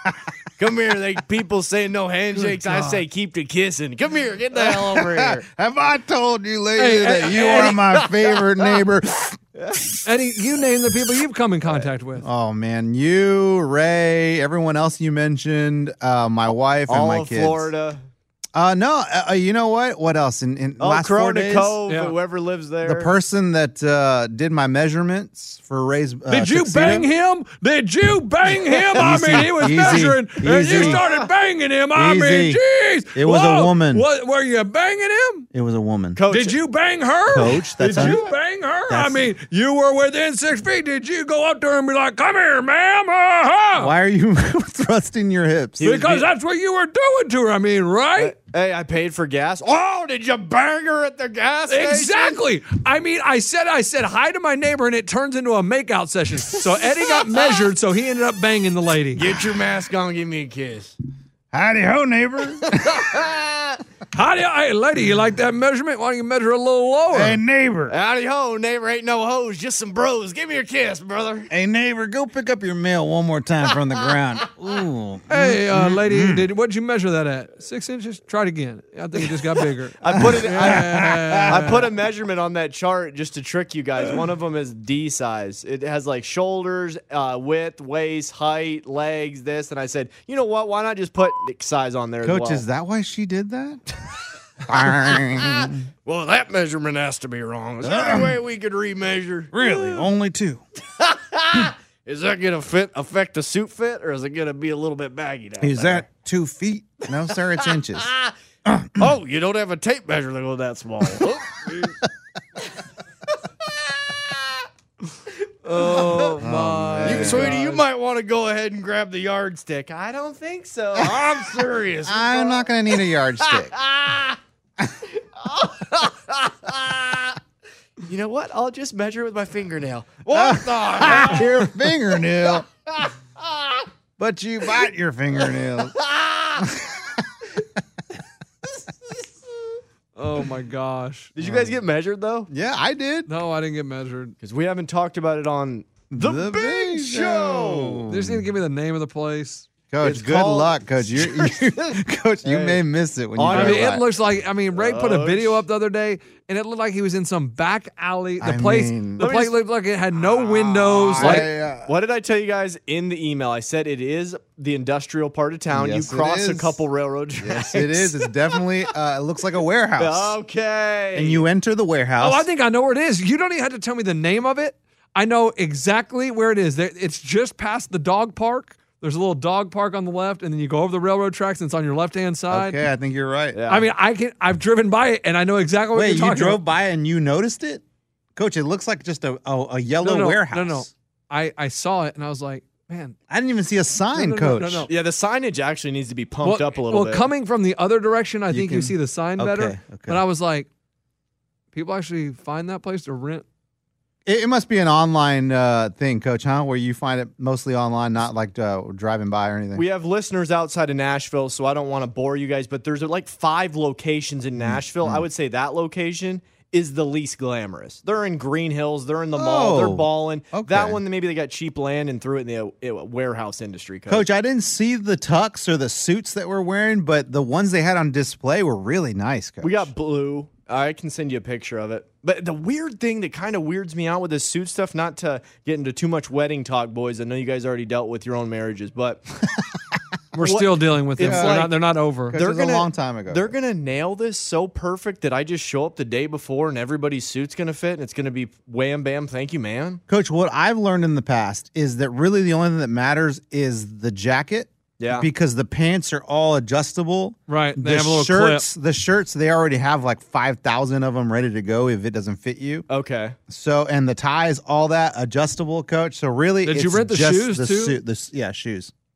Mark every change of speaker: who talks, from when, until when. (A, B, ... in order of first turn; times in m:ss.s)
0:00.6-0:05.4 A
0:02.7-0:03.0 B
0:04.6-0:09.4 C
0:06.8-0:07.8 B
0:09.6-0:10.0 A
0:10.0-0:12.3 B
0:12.2-0:17.7 C
0:16.9-0:18.0 A
0:18.6-0:21.8 C
0:20.8-0:23.1 A
0:21.9-0:22.1 B
0:22.8-0:27.1 C
0:26.3-0:35.5 B
0:29.0-0:30.0 A
0:29.0-0:31.0 C
0:30.7-0:31.3 A
0:31.9-0:32.6 C
0:33.1-0:34.1 C
0:35.5-0:36.2 C
0:36.2-0:36.6 A
0:36.3-0:43.9 B
0:37.3-0:38.3 C
0:37.9-0:38.2 A
0:38.9-0:39.3 C
0:43.8-0:45.9 C
0:45.8-0:46.3 A
0:45.8-0:48.3 B
0:48.2-0:52.4 A
0:51.7-0:59.2 B
0:59.2-1:01.0 A
1:01.5-1:03.1 C
1:02.8-1:03.8 A
1:04.1-1:07.4 B
1:07.1-1:08.0 C
1:07.9-1:11.5 A
1:11.5-1:16.5 C
1:15.3-1:21.8 B
1:20.0-1:20.9 A
1:20.1-1:21.8 C
1:21.4-1:32.6 A
1:32.2-1:33.8 C
1:34.7-1:35.9 C
1:35.1-1:40.0 A
1:37.8-1:38.4 C
1:39.5-1:40.6 C
1:41.0-1:46.1 A
1:45.6-1:48.1 C
1:47.4-1:48.3 A
1:48.6-1:49.0 C
1:49.0-1:52.0 A
1:55.7-1:56.4 A
1:55.7-1:57.8 B
1:56.0-1:57.6 C
1:57.0-2:04.4 A
2:01.0-2:01.4 C
2:02.0-2:03.8 C
2:05.4-2:07.4 A
2:08.1-2:11.7 A
2:10.3-2:12.7 C
2:13.0-2:13.8 A
2:14.2-2:16.0 C
2:16.0-2:16.6 A
2:16.6-2:17.2 C
2:20.2-2:21.3 B
2:21.4-2:22.5 A
2:21.4-2:21.8 C
2:22.5-2:23.3 C
2:23.3-2:24.4 B
2:24.4-2:28.0 A
2:26.1-2:28.5 C
2:28.1-2:29.7 B
2:29.9-2:34.0 C
2:30.0-2:32.8 A
2:33.4-2:34.0 A
2:33.5-2:41.5 B
2:34.8-2:35.6 A
2:38.4-2:39.3 C
2:39.2-2:39.6 A
2:40.3-2:48.3 A
2:40.9-2:41.9 C
2:45.7-2:46.8 C
2:47.4-2:50.4 C
2:50.0-2:51.4 A
2:51.2-2:52.5 C
2:52.2-3:02.8 B
3:02.5-3:03.6 C
3:03.5-3:03.9 A
3:03.7-3:06.6 B
3:05.9-3:07.8 C
3:08.4-3:10.9 C
3:10.0-3:13.2 B
3:13.3-3:14.9 C
3:14.2-3:14.9 B
3:14.9-3:17.3 A
3:16.4-3:20.7 B
3:18.5-3:20.2 C
3:21.7-3:23.5 B
3:24.3-3:29.8 C
3:29.8-3:44.3 A
3:34.6-3:35.2 C
3:39.4-3:41.0 C
3:44.1-3:49.9 C
3:49.6-3:59.2 A
4:00.3-4:02.4 B
4:00.4-4:01.8 A
4:01.2-4:01.7 C
4:02.3-4:03.5 C
4:02.3-4:10.0 A
4:10.1-4:22.9 C
4:15.0-4:15.3 A
4:17.5-4:18.7 B
4:22.9-4:23.4 A
4:23.5-4:28.9 C
4:26.6-4:28.0 B